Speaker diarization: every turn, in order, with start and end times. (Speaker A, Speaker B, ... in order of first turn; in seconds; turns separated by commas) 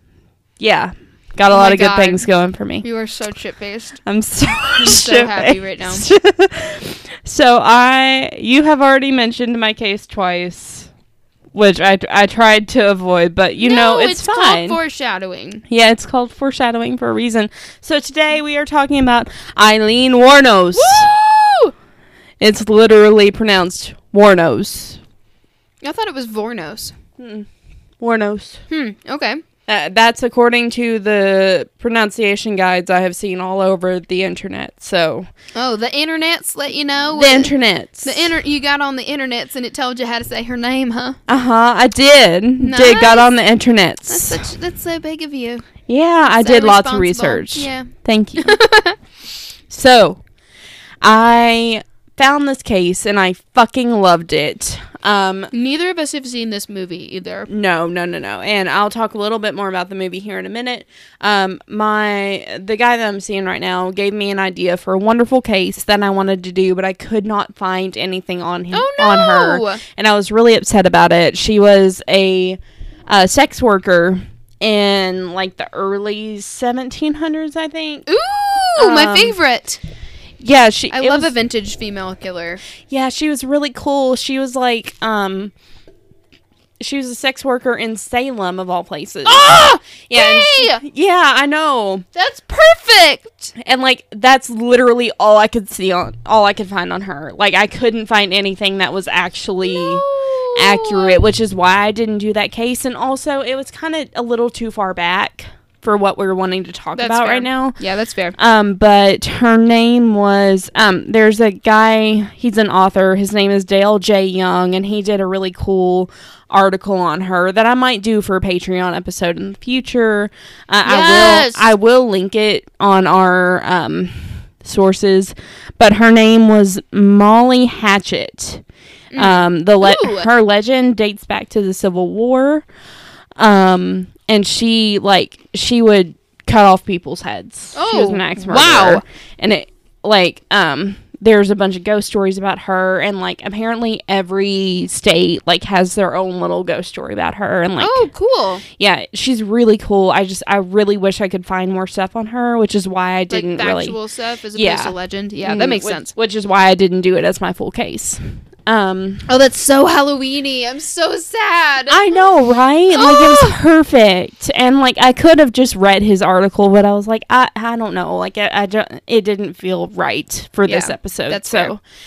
Speaker A: 0.6-2.9, Speaker B: 1.5-2.3, Speaker B: 2.8-4.0, Speaker A: 4.1-10.9, Speaker B: 4.8-6.1, Speaker A: 11.5-14.8, Speaker B: 13.6-15.6, Speaker A: 15.7-21.1, Speaker B: 20.7-21.7, Speaker A: 22.4-25.0, Speaker B: 25.8-26.9, Speaker A: 27.2-27.5, Speaker A: 28.0-28.6, Speaker B: 28.7-29.4, Speaker A: 29.7-35.3, Speaker B: 35.5-41.2, Speaker A: 37.1-38.3, Speaker A: 41.3-44.4, Speaker B: 42.6-43.4, Speaker B: 44.1-45.7, Speaker A: 45.9-48.6, Speaker B: 46.3-49.0, Speaker A: 49.7-50.2, Speaker A: 51.0-55.5, Speaker B: 55.5-57.5, Speaker A: 57.5-78.1, Speaker B: 68.7-69.8, Speaker B: 78.1-79.8, Speaker A: 78.8-79.3, Speaker A: 80.4-81.3, Speaker B: 80.9-82.6, Speaker A: 82.8-85.5, Speaker A: 86.8-92.1, Speaker B: 89.3-90.8, Speaker B: 92.2-93.5, Speaker A: 93.6-107.8, Speaker B: 99.7-101.2, Speaker B: 107.0-108.4, Speaker A: 108.4-128.6, Speaker B: 120.8-121.7, Speaker B: 129.1-130.3, Speaker A: 129.2-132.7, Speaker A: 133.4-148.1, Speaker B: 137.8-139.0, Speaker B: 147.8-148.6, Speaker A: 148.7-154.0, Speaker B: 153.3-156.1, Speaker A: 154.6-159.2, Speaker B: 159.3-162.1, Speaker A: 161.9-171.8, Speaker B: 162.9-163.6, Speaker B: 170.7-171.7